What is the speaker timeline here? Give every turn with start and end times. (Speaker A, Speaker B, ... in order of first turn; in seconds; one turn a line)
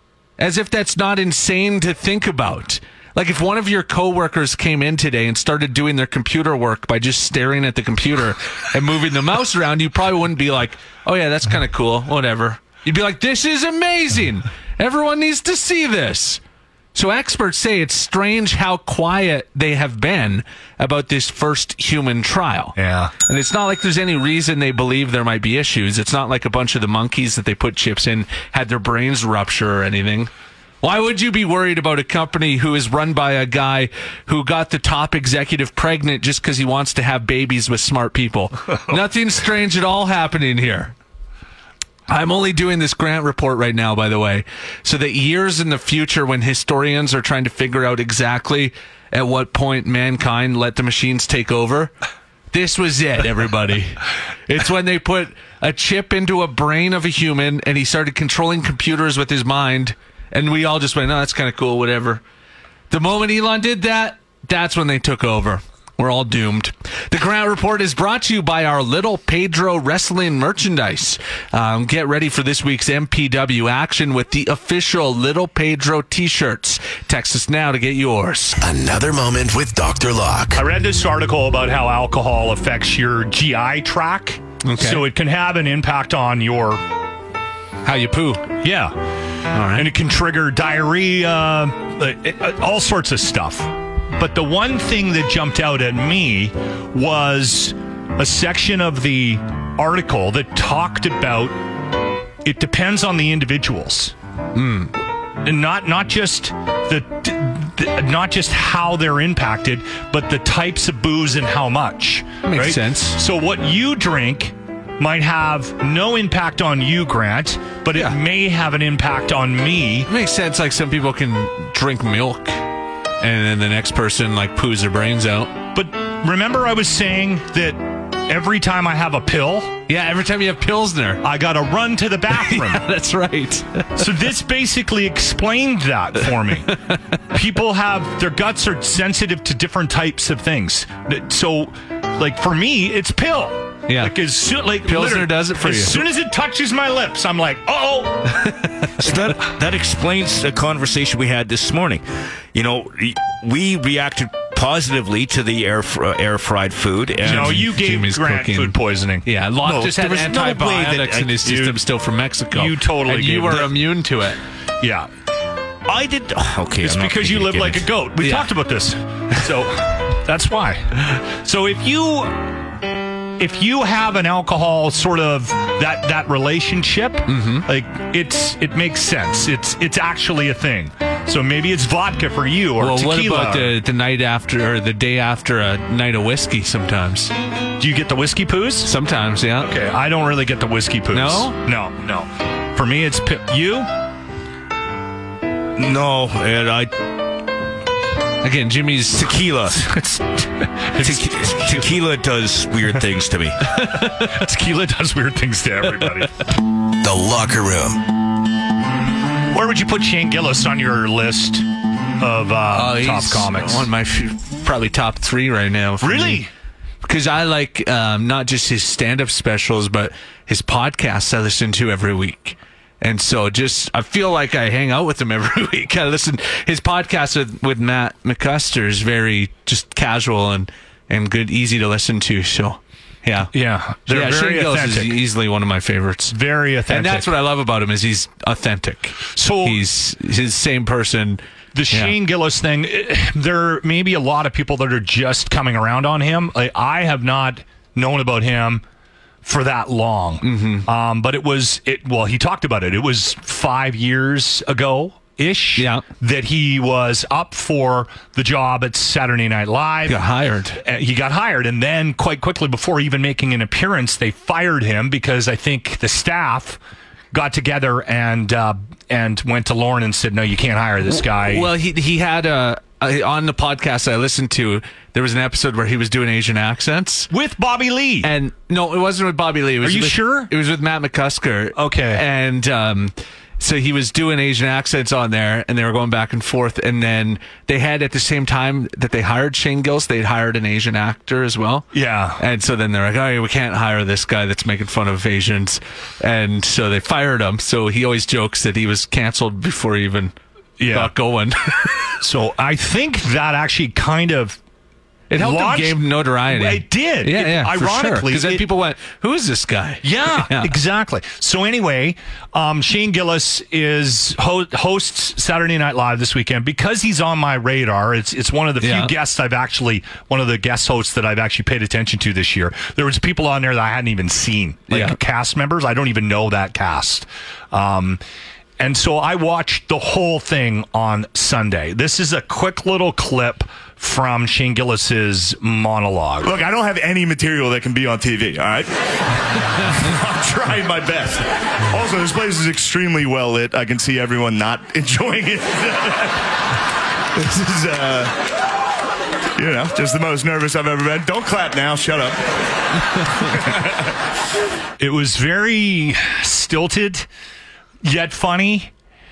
Speaker A: 0.4-16.4
Speaker A: 16.9-30.3
Speaker B: 22.8-23.1
Speaker A: 30.8-40.9
Speaker A: 42.1-51.9
Speaker A: 52.5-62.2
Speaker A: 62.9-78.6
Speaker C: 78.6-80.6
Speaker B: 80.5-86.8
Speaker A: 84.6-85.0
Speaker A: 87.8-88.5
Speaker B: 88.6-88.9
Speaker A: 89.5-89.9
Speaker B: 89.7-101.5
Speaker B: 102.4-104.1
Speaker A: 104.5-104.9
Speaker B: 105.4-120.1
Speaker A: 112.4-113.2
Speaker A: 120.0-122.6
Speaker A: 123.2-125.5
Speaker B: 125.7-129.8
Speaker A: 129.9-131.2
Speaker B: 131.2-132.9
Speaker A: 132.3-134.0
Speaker B: 133.9-136.8
Speaker B: 137.3-148.6
Speaker A: 143.9-144.1
Speaker A: 144.8-146.0
Speaker A: 148.4-148.9
Speaker D: 149.0-157.6
Speaker A: 157.2-158.7
Speaker B: 157.2-161.8
Speaker A: 159.2-164.4
Speaker D: 160.2-161.1
Speaker B: 162.5-163.8
Speaker B: 164.8-165.1
Speaker D: 165.9-167.9
Speaker B: 166.8-172.5
Speaker A: 168.2-168.5
Speaker B: 173.4-183.8
Speaker A: 177.3-177.7
Speaker A: 182.8-187.3
Speaker B: 187.8-188.9
Speaker A: 188.8-189.7
Speaker B: 189.6-193.9
Speaker A: 191.1-191.6
Speaker D: 195.8-196.9
Speaker A: 198.4-199.3
Speaker D: 199.2-199.9
Speaker B: 199.8-201.9
Speaker D: 201.0-203.6
Speaker A: 203.7-204.3
Speaker B: 204.1-206.3
Speaker C: 207.0-208.0
Speaker B: 209.5-211.7
Speaker B: 212.2-213.9
Speaker A: 212.7-216.4
Speaker B: 216.0-216.5
Speaker A: 217.0-233.5
Speaker B: 233.5-235.2
Speaker A: 234.1-236.3
Speaker B: 236.3-237.3
Speaker A: 236.9-242.1
Speaker B: 239.3-239.8
Speaker B: 241.7-248.8
Speaker B: 249.4-260.2
Speaker A: 250.4-250.9
Speaker A: 255.8-256.0
Speaker A: 260.1-260.8
Speaker B: 260.8-266.8
Speaker B: 267.3-271.7
Speaker A: 271.1-277.3
Speaker B: 277.3-278.3
Speaker A: 278.2-300.3
Speaker B: 279.8-280.5
Speaker B: 281.7-282.2
Speaker B: 291.9-292.4
Speaker B: 300.8-301.1
Speaker A: 300.9-302.1
Speaker B: 302.2-304.6
Speaker A: 305.3-310.7
Speaker B: 305.4-308.6
Speaker B: 310.0-328.2
Speaker A: 318.8-319.1
Speaker A: 324.9-325.2
Speaker B: 328.8-336.5
Speaker E: 336.4-338.9
Speaker E: 339.9-346.4
Speaker E: 347.3-348.3
Speaker E: 349.6-352.4
Speaker B: 355.0-357.3
Speaker B: 358.0-358.9